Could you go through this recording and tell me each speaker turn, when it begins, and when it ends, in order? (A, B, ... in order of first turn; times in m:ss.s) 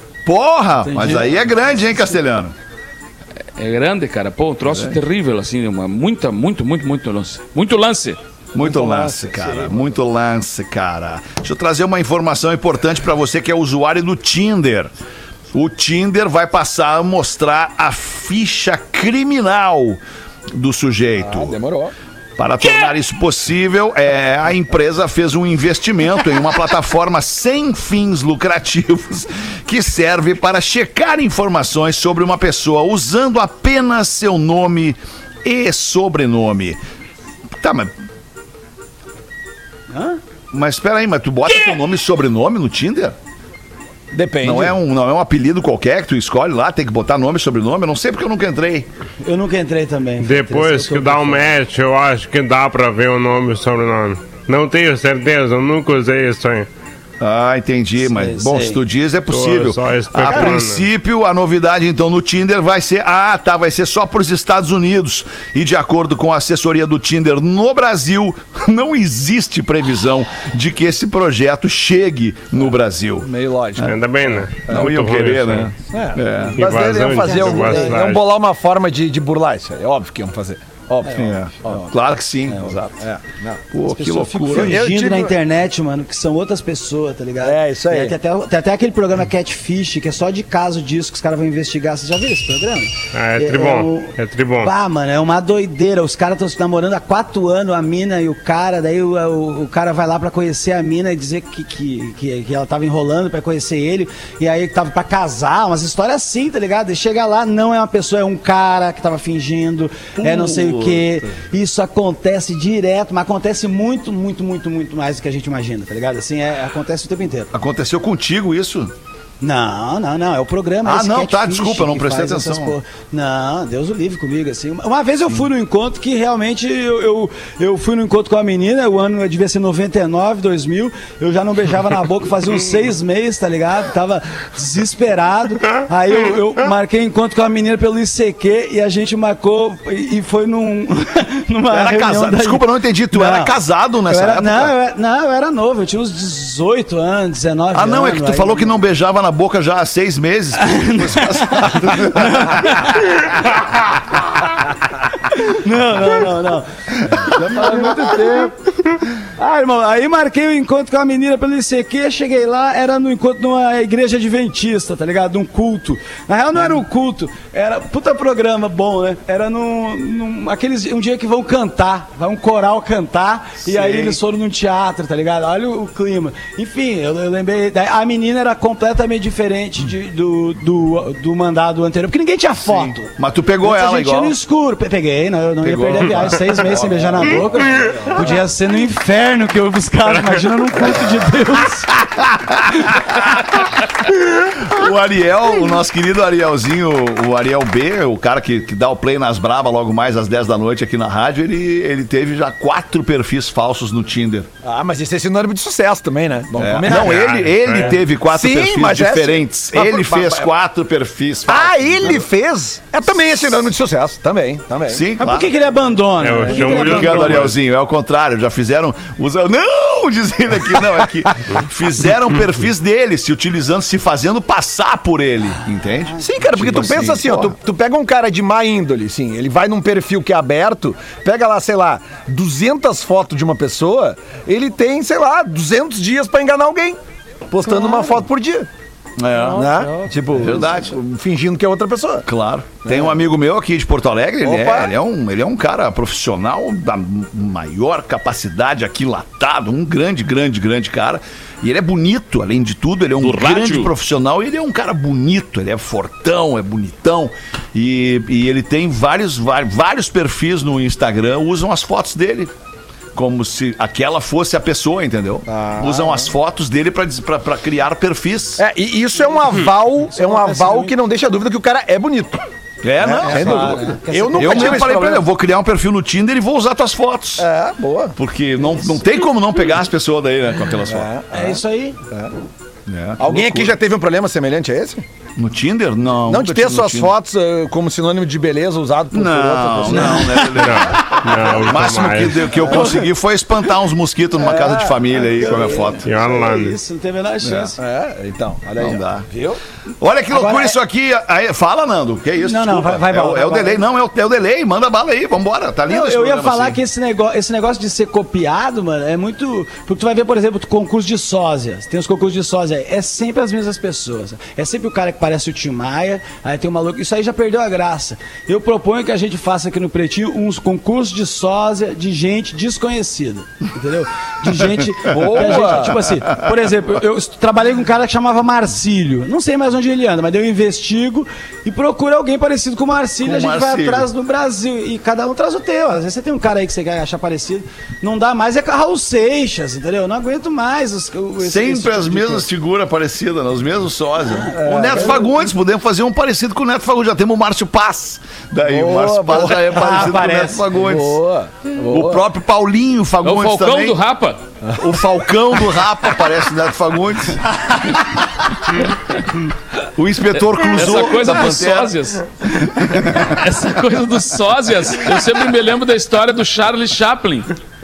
0:00.3-0:02.5 A
0:00.8-0:01.3 B
0:03.6-0:08.2 C
0:04.7-0:05.0 A
0:08.5-0:14.9 A
0:08.6-0:10.0 D
0:15.5-0:20.0 A
0:20.6-0:21.6 A
0:21.2-0:21.9 D
0:22.4-0:36.8 A
0:37.6-0:37.9 A
0:39.9-0:40.2 B
0:40.5-0:43.2 A
0:44.1-0:44.8 D
0:44.4-0:48.9 A
0:49.2-0:51.5 B
0:50.2-0:56.7 E
0:57.2-1:14.0 A
0:58.0-0:58.8 B
0:59.3-1:00.9 E
1:13.2-1:14.9 D
1:13.8-1:15.7 E
1:14.7-1:16.6 A
1:15.9-1:21.9 D
1:16.6-1:18.2 E
1:17.2-1:18.0 B
1:21.1-1:22.9 A
1:22.5-1:23.6 D
1:23.7-1:24.8 A
1:23.9-1:57.5 B
1:24.5-1:25.4 D
1:27.4-1:28.2 D
1:33.1-1:34.7 E
1:50.2-1:51.3 A
1:57.5-1:58.9 A
1:59.4-2:28.8 B
2:00.8-2:02.8 A
2:21.7-2:24.7 A
2:27.7-2:33.0 A
2:30.6-2:33.4 B
2:35.4-3:03.1 B
2:37.1-2:37.6 A
2:53.6-2:54.2 A
3:02.6-3:04.4 A
3:03.6-3:12.0 B
3:05.6-3:07.4 A
3:07.7-3:08.4 D
3:10.8-3:11.3 A
3:12.1-3:13.7 A
3:14.3-3:24.5 A
3:24.6-3:27.3 D
3:26.6-3:32.2 A
3:26.9-3:28.0 E
3:28.3-3:30.5 D
3:31.5-3:35.0 D
3:34.9-3:35.5 A
3:35.2-3:37.5 B
3:36.2-3:37.6 E
3:36.4-3:36.9 D
3:36.6-3:47.6 A
3:46.2-3:57.0 D
3:57.5-3:58.7 D
3:57.7-3:58.2 B
3:59.2-3:59.7 A
3:59.3-4:00.7 B
3:59.5-4:02.3 D
4:00.3-4:01.0 A
4:02.3-4:22.5 A
4:02.8-4:03.2 D
4:04.4-4:04.9 D
4:13.2-4:13.9 C
4:23.2-4:28.6 A
4:25.5-4:26.3 D
4:28.6-4:32.4 D
4:30.1-4:31.0 B
4:32.8-4:37.5 A
4:33.0-4:35.3 D
4:33.2-4:34.9 B
4:37.4-4:38.2 D
4:38.2-4:41.1 A
4:40.9-4:42.3 D
4:41.3-4:42.0 B
4:42.9-4:43.8 A
4:43.2-4:45.0 D
4:45.4-4:47.2 A
4:46.3-4:50.5 D
4:49.1-4:56.1 A
4:49.9-4:50.8 B
4:50.6-4:52.6 E
4:52.6-4:53.0 D
4:54.4-4:56.2 D
4:55.5-4:57.8 B
4:56.0-4:56.8 E
4:57.4-4:57.7 A
4:57.8-4:59.6 D
4:58.8-4:59.3 A
5:00.0-5:06.8 A
5:00.3-5:00.8 B
5:02.4-5:03.8 B
5:05.9-5:42.5 B
5:25.1-5:26.0 D
5:33.2-5:34.1 A
5:41.4-5:51.2 A
5:44.2-5:45.2 B
5:44.5-5:45.3 D
5:48.6-5:49.6 D
5:49.5-5:50.6 B
5:50.8-5:52.3 D
5:51.8-5:54.0 A
5:53.2-5:54.4 C
5:54.8-5:58.5 A
6:00.0-6:02.0 A
6:00.4-6:07.5 C
6:02.8-6:03.3 A